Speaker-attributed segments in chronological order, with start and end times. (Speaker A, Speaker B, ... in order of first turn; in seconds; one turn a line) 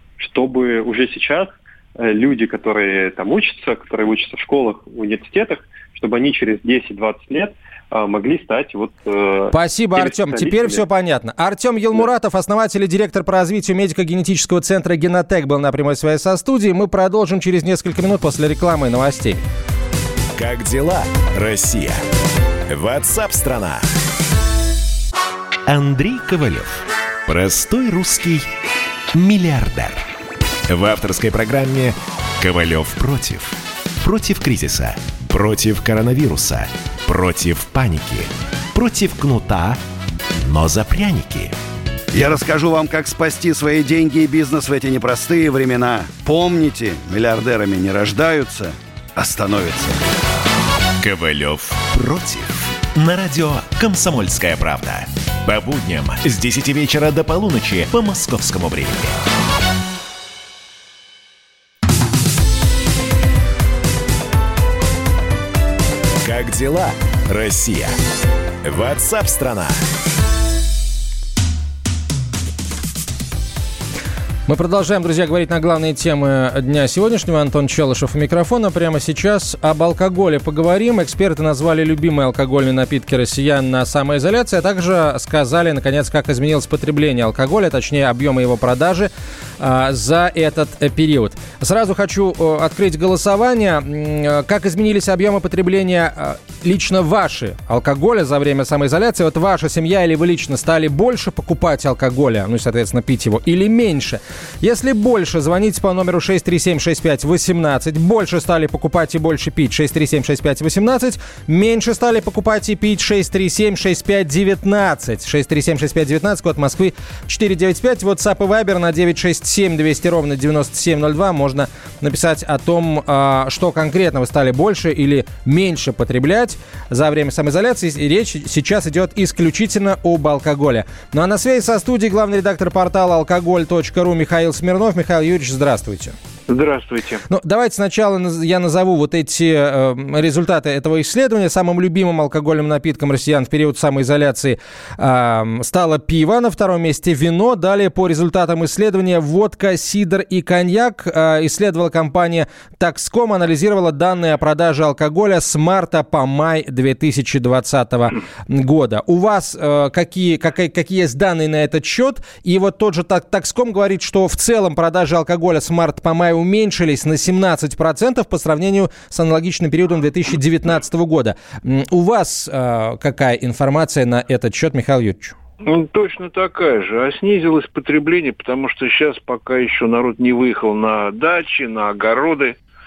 Speaker A: 0.2-10.8
Speaker B: 9.5-19.4
Speaker C: 20.4-22.0
Speaker C: 22.7-23.8
Speaker C: 25.7-28.5
Speaker C: 29.1-30.0
Speaker C: 30.7-39.8
Speaker C: 40.4-41.5
Speaker D: 42.1-50.0
Speaker C: 51.0-59.2
Speaker C: 66.2-67.9
Speaker C: 68.6-69.8
Speaker B: 74.5-136.1
Speaker E: 136.5-137.2
Speaker B: 137.3-175.3
Speaker E: 175.6-182.6